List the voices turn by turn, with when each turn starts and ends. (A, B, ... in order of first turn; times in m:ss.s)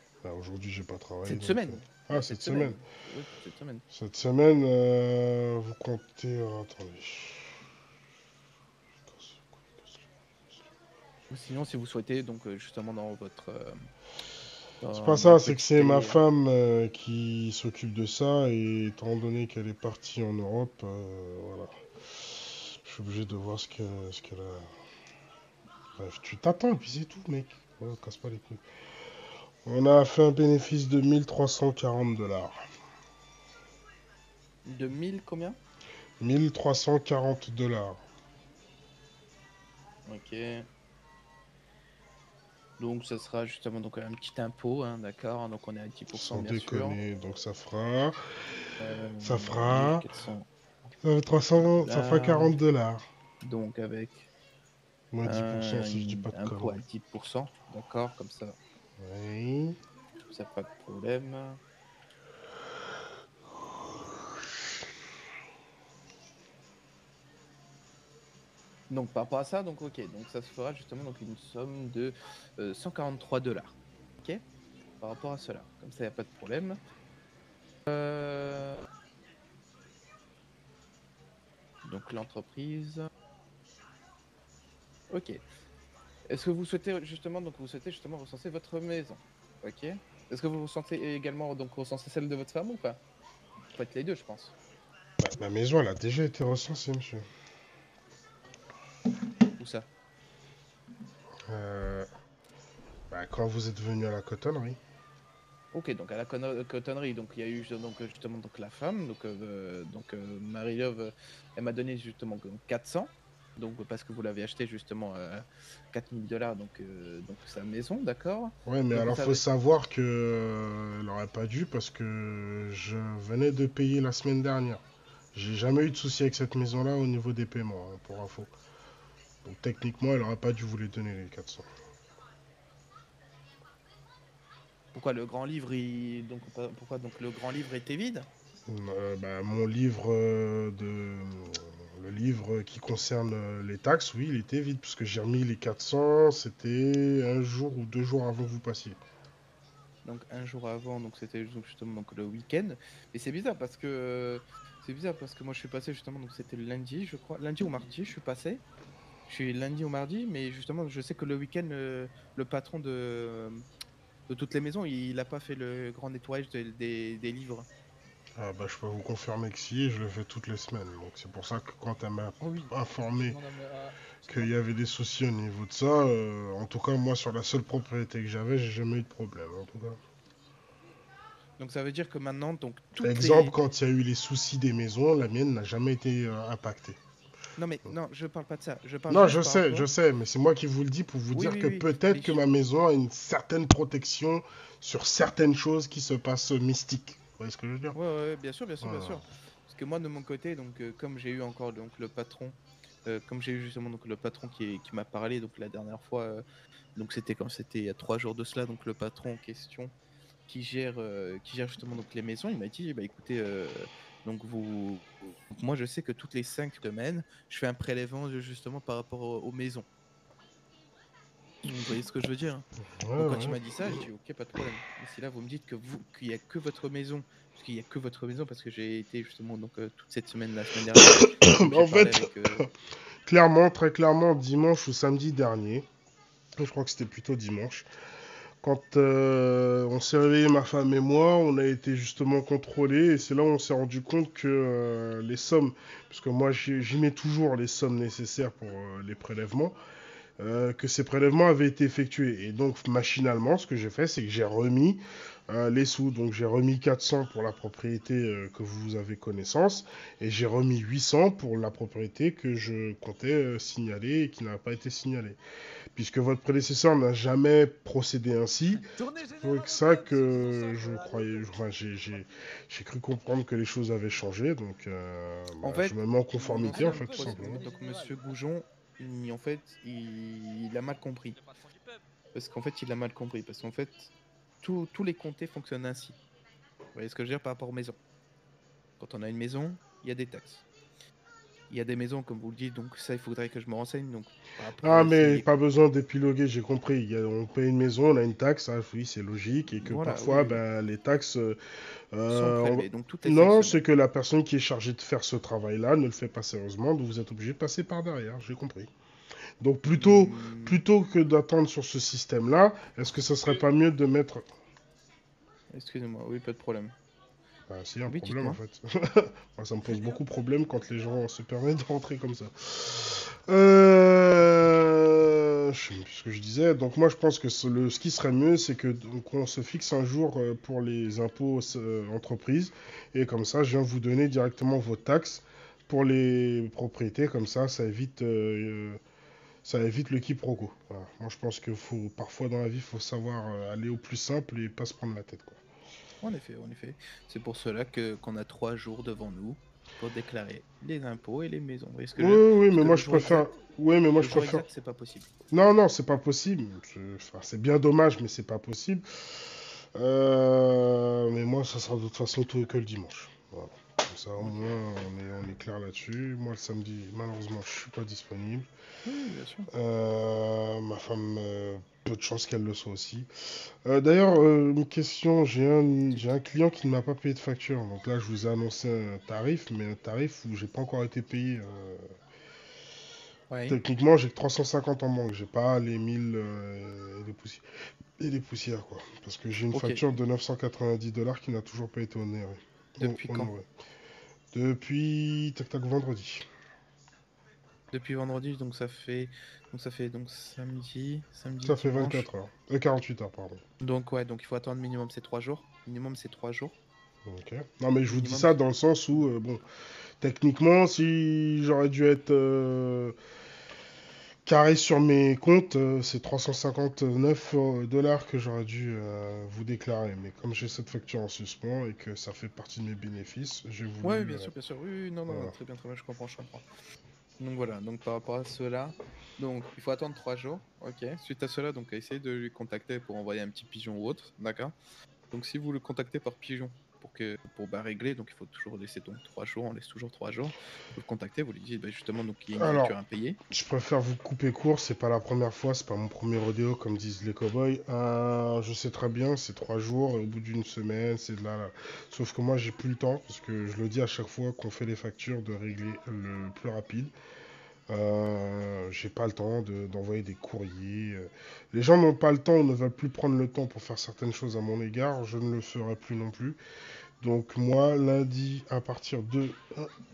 0:00.2-0:02.8 A
0:01.2-0:03.8 B
0:03.9-0:07.6 A
0:09.1-0:10.0 A
0:11.3-0:13.9 B
0:14.8-0:16.2 B
0:14.9-0:24.7 A
0:26.0-0:28.6 A
0:29.6-0:32.6 A
0:34.7-0:35.6 B
0:36.2-0:38.0 A
0:40.0-0:40.7 B
0:42.8-0:47.0 B
0:46.1-0:48.2 A
0:48.8-0:50.5 B
0:49.2-0:50.1 A
0:51.0-0:53.0 A
0:51.8-0:52.6 B
0:53.4-0:54.3 B
0:55.1-0:56.8 A
0:55.2-0:58.6 B
0:59.0-0:59.8 A
1:00.2-1:01.6 B
1:08.9-1:14.4 B
1:15.0-1:16.8 B
1:17.9-1:18.8 B
1:21.8-1:23.1 B
1:25.1-1:25.4 B
1:26.3-1:33.0 B
1:33.7-1:34.5 B
1:35.2-1:37.3 A
1:39.6-1:39.9 B
1:41.4-1:42.1 A
1:43.1-1:44.8 A
1:45.7-1:59.4 B
1:58.6-2:04.8 A
2:05.3-2:08.5 A
2:09.4-2:11.7 A
2:14.9-2:18.3 B
2:18.7-2:29.0 A
2:30.0-2:38.6 B
2:39.3-2:43.6 B
2:44.3-2:47.7 B
2:48.4-2:53.4 A
2:52.6-2:54.5 B
2:54.3-3:00.0 A
3:01.6-3:03.6 B
3:03.0-3:07.0 A
3:07.6-3:09.9 B
3:09.1-3:18.0 A
3:11.3-3:12.5 B
3:17.9-3:26.4 B
3:18.8-3:19.2 A
3:27.0-3:29.9 B
3:30.5-3:39.9 B
3:41.6-3:42.6 B
3:42.8-3:43.6 A
3:43.2-3:52.6 B
3:50.9-3:52.7 A
3:53.2-3:55.9 A
3:56.6-3:57.9 A
3:58.6-4:09.8 A
4:10.4-4:25.4 A
4:25.9-4:37.6 A
4:35.6-4:41.4 B
4:42.4-4:44.1 B
4:44.6-4:46.2 B
4:46.9-4:48.0 B
4:49.0-4:50.6 B
4:51.7-4:55.5 B
4:54.8-5:01.6 A
4:59.8-5:00.6 B
5:02.1-5:08.9 A
5:02.3-5:03.8 B
5:09.6-5:14.5 A
5:09.9-5:10.8 B
5:15.7-5:16.9 B
5:17.7-5:39.0 A
5:18.1-5:18.6 B
5:39.6-5:45.6 A
5:46.2-5:53.5 B
5:52.2-5:54.6 A
5:54.2-5:55.3 B
5:55.5-6:08.7 A
6:04.4-6:04.8 B
6:09.0-6:09.7 B
6:09.7-6:22.2 A
6:23.5-6:23.8 B
6:23.7-6:27.6 A
6:28.2-6:33.7 A
6:29.7-6:30.0 B
6:33.0-6:33.5 B
6:34.5-6:36.5 A
6:37.9-6:42.3 B
6:41.6-6:43.6 A
6:43.8-6:46.8 B
6:47.2-6:49.6 A
6:48.1-6:48.6 B
6:50.2-6:53.2 A
6:54.4-7:04.5 A
7:04.0-7:06.6 B
7:05.3-7:05.6 A
7:07.4-7:14.7 B
7:15.3-7:23.4 B
7:22.6-7:22.9 A
7:23.5-7:37.1 A
7:37.9-7:46.6 A
7:47.2-7:49.9 A